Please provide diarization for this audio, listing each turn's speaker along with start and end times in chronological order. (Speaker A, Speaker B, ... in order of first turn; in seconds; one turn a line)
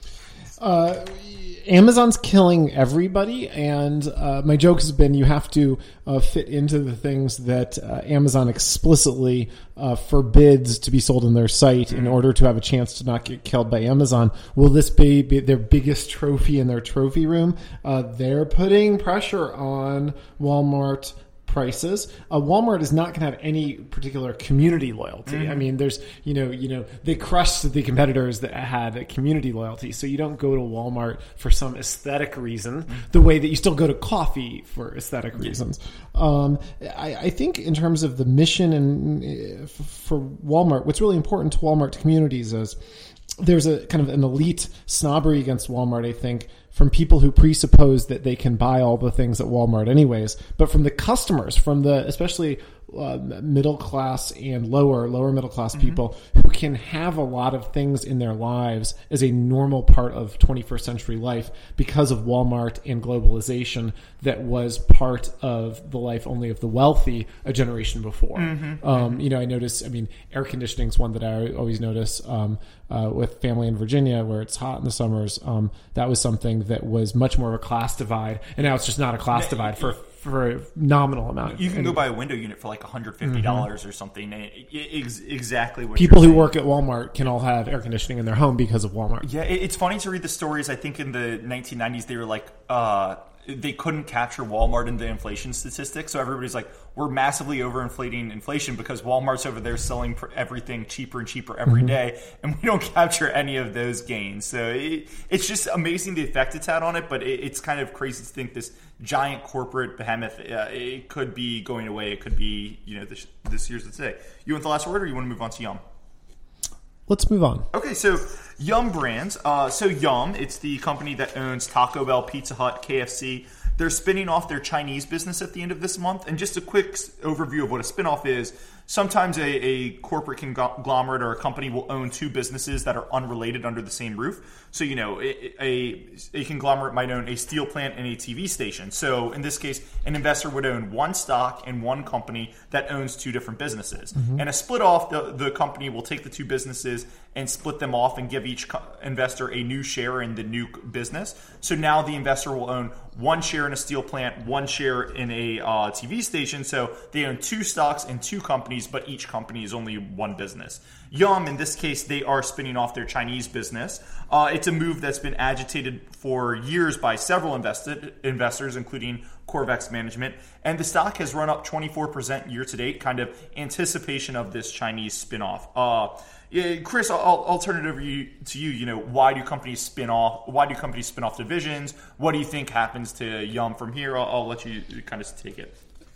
Speaker A: 0.6-42.8
Speaker B: 11.9-12.2
Speaker B: 25.3-25.6
Speaker A: 43.4-82.0
Speaker B: 55.8-56.0
Speaker B: 68.4-69.2
Speaker B: 79.3-79.9
Speaker B: 81.5-86.5
Speaker A: 83.2-83.7
Speaker A: 86.0-89.3
Speaker B: 89.2-115.8
Speaker A: 117.1-117.7
Speaker B: 117.7-185.7
Speaker A: 144.2-144.4